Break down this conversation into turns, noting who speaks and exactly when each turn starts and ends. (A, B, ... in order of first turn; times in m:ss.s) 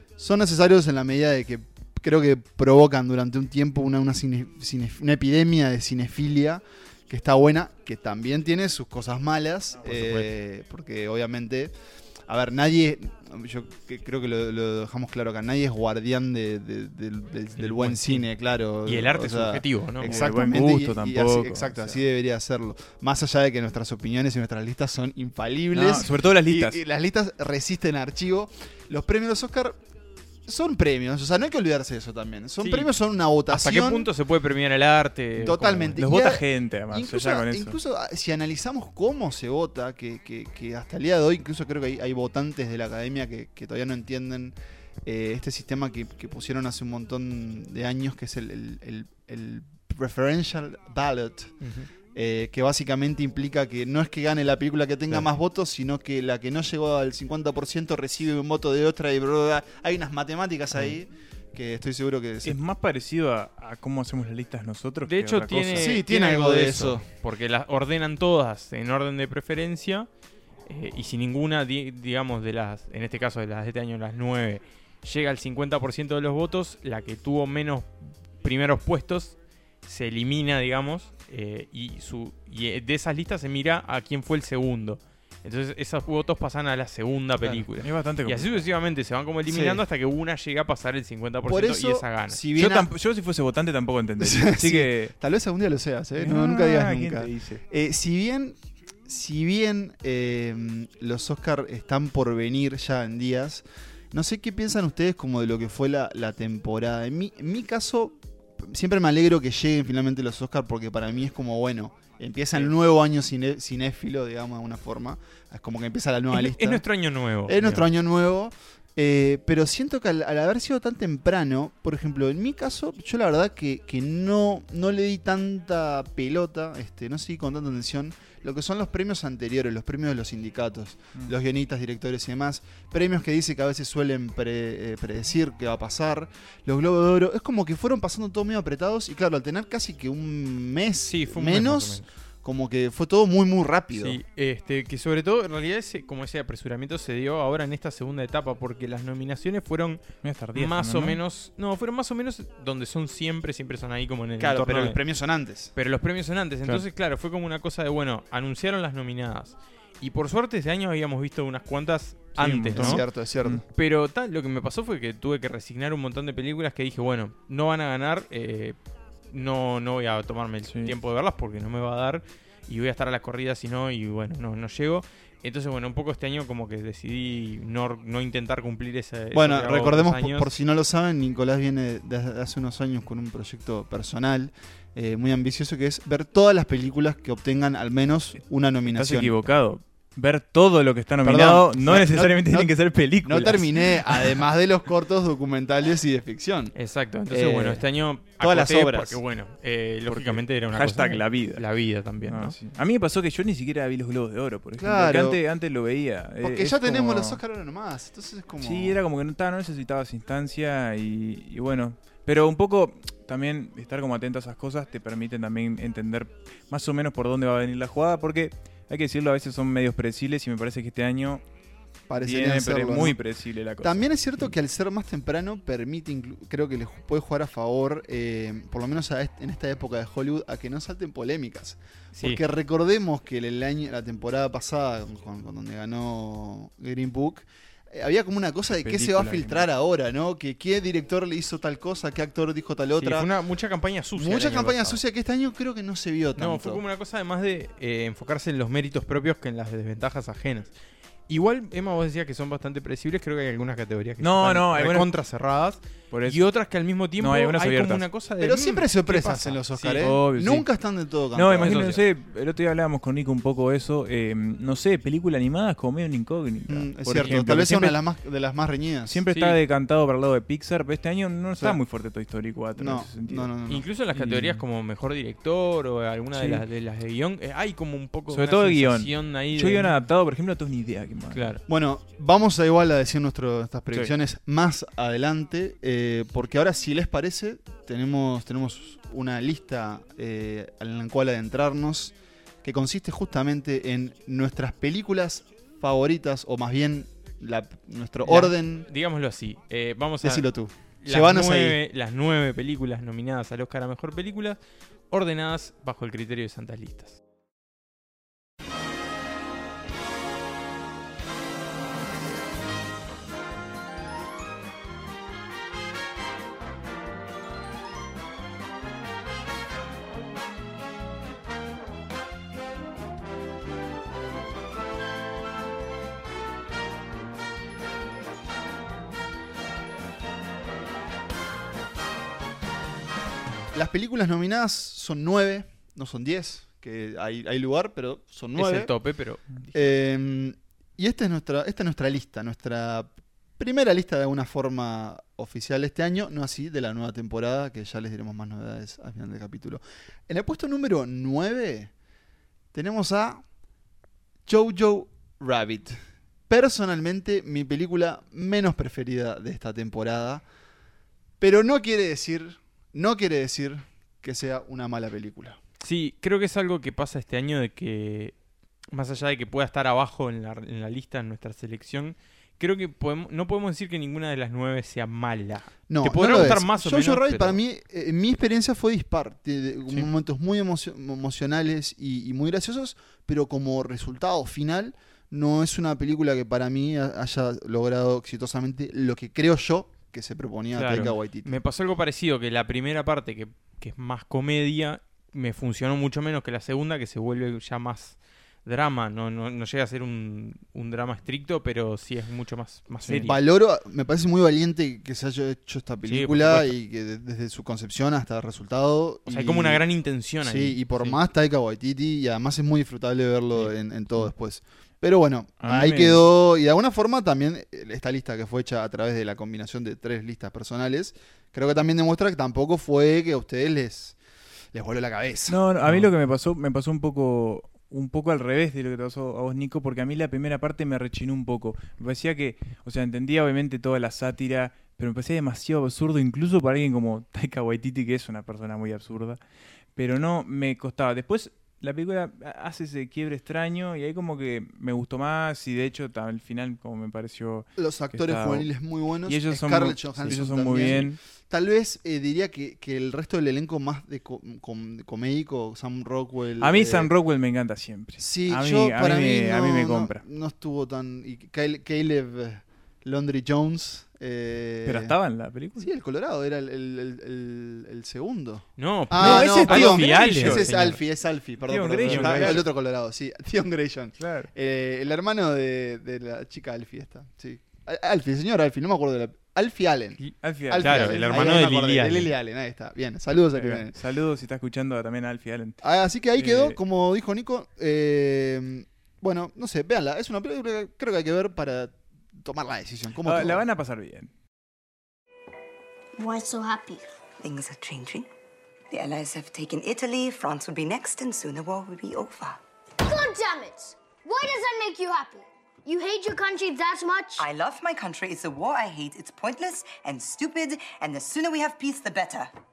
0:00.2-0:11.7 A
0:12.3-0:29.8 A
0:17.6-0:18.3 B
0:18.8-0:20.3 B
0:20.1-0:22.0 C
0:25.7-0:26.8 C
0:30.5-0:34.1 A
0:32.6-0:32.9 B
0:33.5-0:36.0 B
0:35.4-0:51.6 A
0:36.0-0:37.8 C
0:51.6-0:51.9 B
0:52.1-1:02.6 A
1:02.4-1:06.0 C
1:05.0-1:10.1 B
1:05.8-1:07.1 A
1:10.7-1:32.4 B
1:27.4-1:28.6 C
1:29.5-1:29.8 A
1:31.5-1:32.9 A
1:32.6-1:35.2 C
1:34.2-1:56.8 A
1:36.2-1:37.6 C
1:56.3-1:57.9 B
1:57.5-2:24.2 A
2:21.0-2:22.1 B
2:23.9-2:30.0 B
2:30.2-2:31.2 C
2:30.6-2:35.0 B
2:34.4-2:35.7 A
2:35.8-2:43.0 B
2:42.4-2:43.6 C
2:42.7-2:43.6 A
2:43.7-2:48.8 B
2:49.3-3:00.6 B
2:50.7-2:51.0 C
2:59.3-3:09.4 A
3:08.9-3:14.4 C
3:11.2-3:16.8 A
3:16.8-3:22.6 B
3:17.3-3:17.9 A
3:18.4-3:19.2 A
3:20.1-3:21.7 C
3:22.2-3:27.4 C
3:24.8-3:25.4 A
3:26.4-3:29.0 A
3:28.6-3:41.4 C
3:42.1-3:43.2 A
3:42.2-3:44.5 C
3:43.8-4:03.3 A
3:52.2-3:52.4 B
3:58.7-3:59.7 C
4:03.0-4:05.0 B
4:04.2-4:06.8 A
4:06.4-4:10.7 B
4:11.3-4:20.0 B
4:14.2-4:15.1 C
4:16.1-4:16.4 C
4:17.2-4:18.1 C
4:18.4-4:22.0 A
4:19.8-4:20.7 C
4:21.3-4:28.0 C
4:21.6-4:22.0 B
4:26.7-4:29.2 A
4:29.1-4:33.6 C
4:29.3-4:29.6 B
4:32.8-4:33.9 A
4:33.7-4:39.9 B
4:34.1-4:34.6 C
4:36.4-4:36.6 C
4:38.3-4:41.5 C
4:41.3-4:41.6 B
4:41.7-4:58.9 A
4:58.2-5:00.5 B
5:00.2-5:01.8 A
5:01.0-5:04.6 B
5:05.1-5:07.2 B
5:33.7-5:38.9 A
5:38.6-5:39.9 B
5:39.7-5:51.9 A
5:52.7-5:53.4 A
5:54.5-5:56.0 A
5:56.5-6:00.4 A
6:01.4-6:05.6 A
6:05.8-6:08.4 B
6:08.9-6:17.6 B
6:15.9-6:31.6 A
6:30.7-6:43.4 B
6:43.2-6:49.8 A
6:46.1-6:46.7 B
6:49.3-6:51.2 B
6:50.4-7:04.2 A
6:55.6-6:56.2 C
7:04.7-7:06.0 A
7:05.5-7:19.4 C
7:20.0-7:28.7 C
7:27.8-7:37.1 A
7:29.2-7:31.2 C
7:36.6-7:40.2 C
7:38.2-7:45.2 A
7:44.8-7:45.9 C
7:45.8-8:04.0 A
7:48.8-7:51.0 B
7:49.1-7:51.0 C
7:51.7-7:52.6 C
7:52.0-7:52.6 B
7:54.2-7:54.5 C
8:00.2-8:02.3 B
8:00.4-8:01.6 C
8:03.6-8:05.8 C
8:05.8-8:13.7 A
8:06.4-8:06.8 C
8:13.2-8:14.3 C
8:16.2-8:17.1 D
8:17.4-8:18.3 E
8:18.9-8:22.6 E
8:23.0-8:27.5 D
8:27.4-8:32.5 E